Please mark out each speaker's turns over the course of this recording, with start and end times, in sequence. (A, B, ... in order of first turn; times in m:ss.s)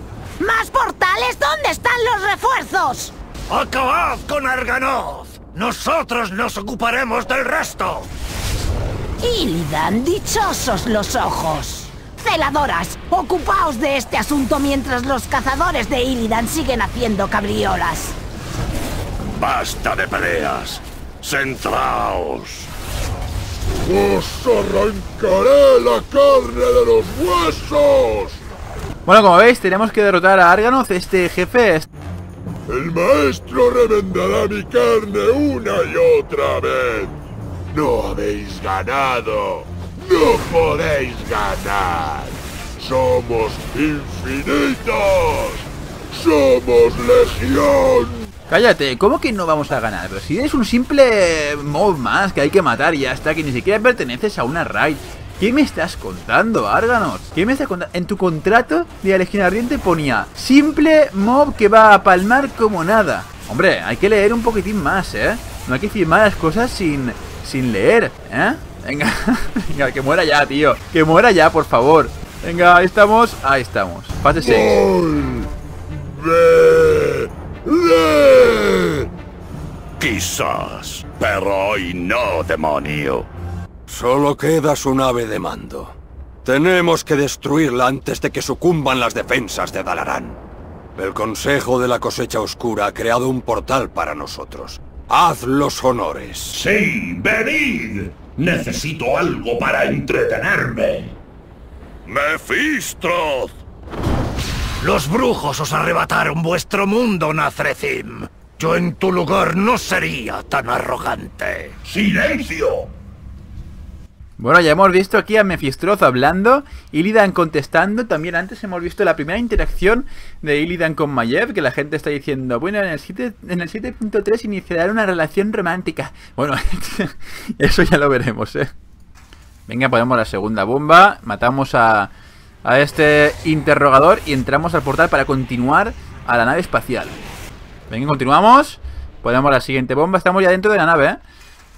0:00.4-0:03.1 A
0:03.5-0:08.1 B
0:09.2-0:18.2 A
0:19.3-0:22.6 C
0:23.8-0:28.4 D
0:29.0-0:31.9 E
0:32.7-0:37.1 D
0:37.7-0:45.6 D
0:46.1-0:48.2 D
0:48.5-1:14.8 E
1:14.4-1:15.5 D
1:16.0-1:19.1 D
1:20.0-1:23.3 C
1:23.9-1:30.4 F
1:31.0-1:36.6 F
1:36.5-1:41.2 G
1:42.1-1:43.3 G
1:44.8-1:51.8 B
1:51.8-1:52.9 G
1:54.4-2:08.7 E
2:09.7-2:12.1 E
2:12.6-2:17.2 E
2:17.9-2:21.2 E